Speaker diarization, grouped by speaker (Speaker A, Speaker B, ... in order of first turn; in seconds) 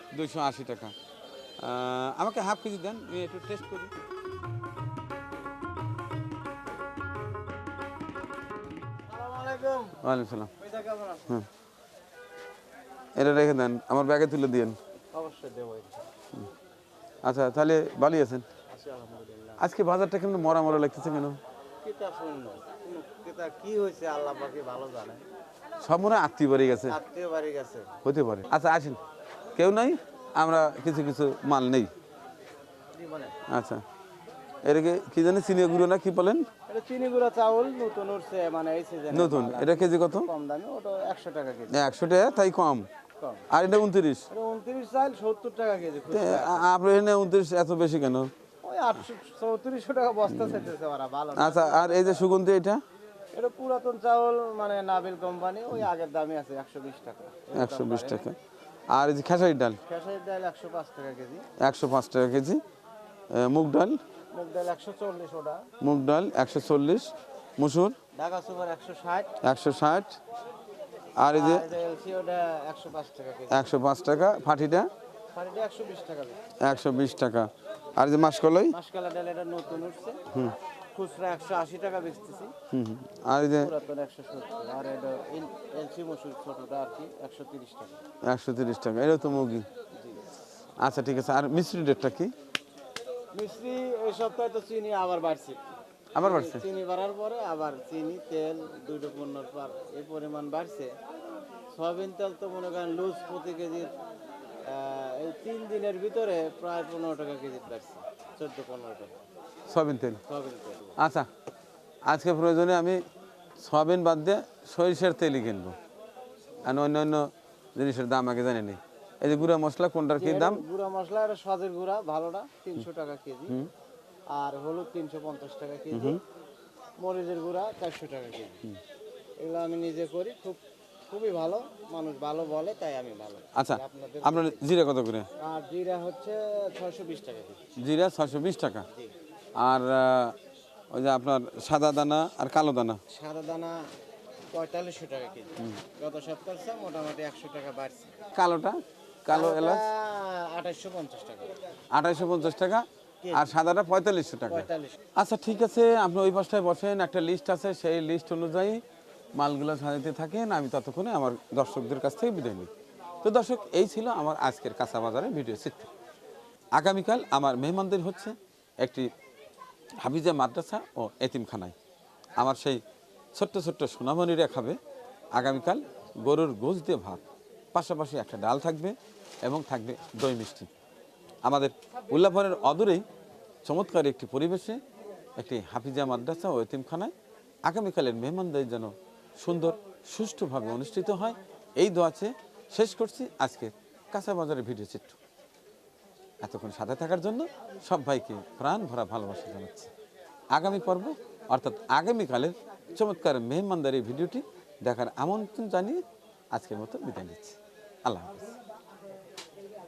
Speaker A: 0.1-0.9, 1.6-3.9, 10.0-10.5, 13.2-14.8, 17.2-18.4, 19.6-21.4, 25.8-26.9, 28.0-29.0, 29.6-31.9, 33.5-33.8, 34.6-36.5, 39.1-40.3, 41.7-42.9, 43.5-44.2, 46.1-48.3, 51.4-52.8, 57.5-58.4, 58.9-59.8, 61.6-62.6, 63.3-64.0, 65.8-68.0, 69.4-70.2, 71.2-71.7, 73.5-74.9, 76.6-78.7, 82.7-83.7, 88.2-89.7, 90.8-92.3, 96.1-96.6, 109.7-110.2, 111.0-111.3, 112.1-113.0, 113.6-115.7, 116.6-120.6, 125.9-126.2, 133.6-135.3, 137.8-138.8, 139.6-140.3, 140.9-143.0, 148.3-149.8, 151.9-158.8, 159.3-162.7, 163.2-165.9, 166.7-169.1, 170.0-171.7, 172.4-172.8, 173.3-174.8, 175.3-180.7, 181.4-183.0, 183.6-184.8, 185.4-187.1, 187.6-195.2, 196.4-199.9, 200.5-208.6
Speaker B: 9.1-10.0, 10.6-11.3, 15.1-16.0, 18.7-19.6, 21.8-25.2, 26.9-27.9, 32.9-33.4, 36.7-41.8, 43.2-43.5, 44.3-46.7, 48.6-52.0, 53.3-58.2, 59.9-61.5, 64.3-65.6, 68.2-69.3, 71.3-73.7, 75.3-76.5, 78.7-80.2, 80.9-82.5, 83.6-88.0, 93.3-95.6, 96.2-100.9, 101.7-103.9, 104.7-109.2, 110.3-111.0, 120.2-123.5, 124.3-126.2, 127.0-128.6, 129.4-134.6, 135.4-137.6, 143.1-143.8, 144.5-148.1, 149.3-151.6, 153.2-153.5, 154.5-155.0